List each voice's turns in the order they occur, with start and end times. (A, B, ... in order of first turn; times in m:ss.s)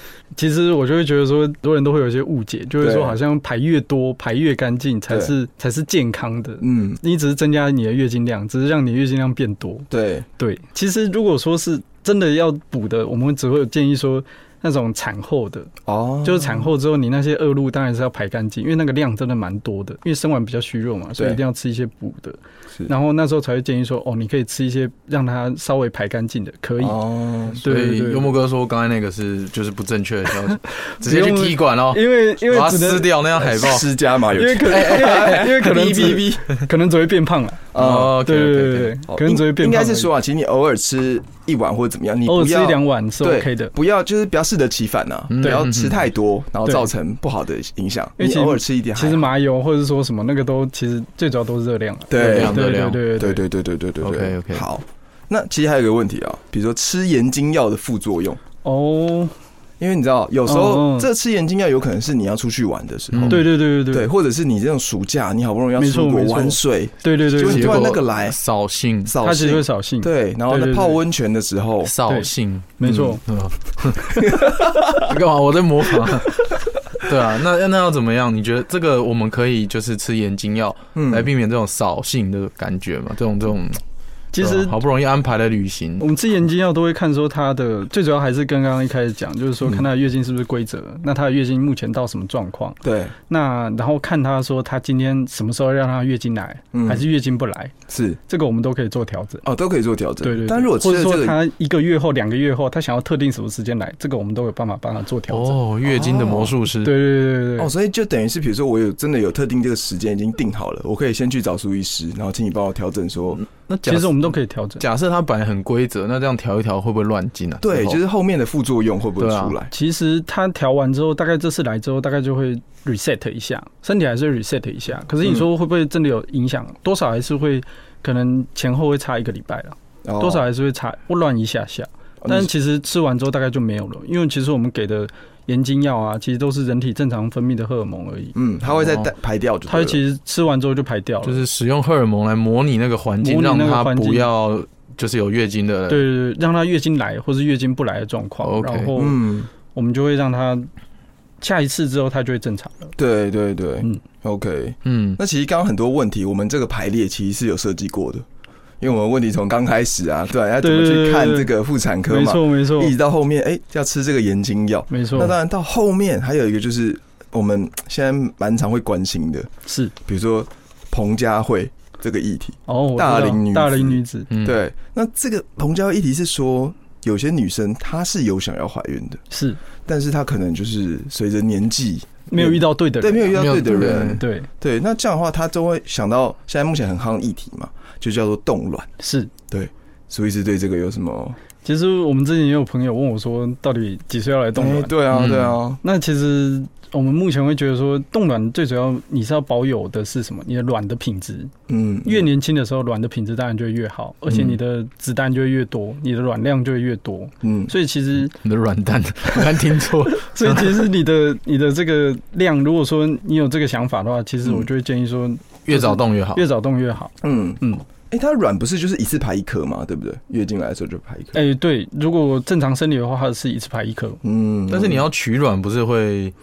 0:00.4-0:27.0 A
0:02.8-0:03.2 B
0:06.6-0:07.0 B
0:09.9-0:10.3 B
0:15.8-0:16.7 B
0:26.8-0:27.6 B
0:27.5-0:28.3 A
0:27.6-0:33.9 C
0:30.9-0:33.1 A
0:33.4-0:36.6 B
0:34.3-0:37.7 A
0:34.6-0:35.5 C
0:37.7-0:38.2 B
0:37.8-0:39.0 C
0:38.2-0:40.1 A
0:39.1-0:49.3 B
0:42.3-0:43.7 A
0:45.3-0:46.1 C
0:45.4-0:45.7 A
0:46.6-0:46.9 A
0:48.2-0:53.4 A
0:52.1-0:52.6 B
0:52.2-0:53.0 C
0:53.2-0:58.4 B
0:54.0-0:54.6 C
0:58.6-0:59.3 A
0:59.8-1:08.4 B
1:00.5-1:01.1 A
1:03.1-1:03.4 C
1:03.3-1:04.1 A
1:05.8-1:07.9 A
1:07.4-1:09.1 C
1:09.0-1:12.0 B
1:09.2-1:11.0 A
1:11.8-1:23.8 C
1:12.1-1:13.2 A
1:14.2-1:15.1 B
1:21.0-1:21.3 B
1:24.3-1:24.8 A
1:24.4-1:26.0 C
1:26.0-1:37.7 A
1:32.8-1:33.1 B
1:36.7-1:37.1 B
1:37.9-1:38.2 B
1:38.3-1:39.4 A
1:39.4-1:41.4 B
1:40.2-1:45.6 A
1:45.3-1:47.0 C
1:45.8-1:46.6 B
1:46.8-1:47.7 A
1:47.6-1:53.4 B
1:53.4-1:58.0 C
1:53.9-1:54.8 A
1:57.6-1:59.7 B
1:59.2-1:59.5 C
1:59.7-2:18.4 A
2:10.0-2:10.5 B
2:12.2-2:12.5 B
2:18.3-2:20.0 B
2:18.8-2:19.1 C
2:19.7-2:21.4 A
2:21.2-2:26.1 C
2:23.2-2:24.3 A
2:25.9-2:30.7 A
2:28.4-2:28.9 C
2:29.0-2:29.5 B
2:31.4-2:33.0 A
2:33.0-2:38.2 B
2:34.8-2:35.2 C
2:38.8-2:49.5 B
2:40.6-2:41.5 A
2:42.1-2:43.0 A
2:44.9-2:45.4 A
2:49.7-2:49.9 A
2:50.0-2:59.2 B
2:52.7-2:54.3 A
2:54.3-2:54.6 C
2:59.3-2:59.6 A
2:59.9-3:08.9 B
3:02.3-3:04.5 A
3:03.4-3:04.2 C
3:09.0-3:09.3 A
3:09.5-3:11.4 B
3:11.6-3:15.0 A
3:14.6-3:15.8 B
3:15.1-3:15.6 C
3:15.8-3:21.5 A
3:21.7-3:22.3 B
3:22.0-3:28.3 A
3:27.4-3:27.7 B
3:28.3-3:30.9 C
3:30.1-3:37.8 A
3:35.7-3:36.4 C
3:37.2-3:41.4 B
3:41.3-3:44.2 A
3:44.2-3:45.0 B
3:44.7-3:46.3 C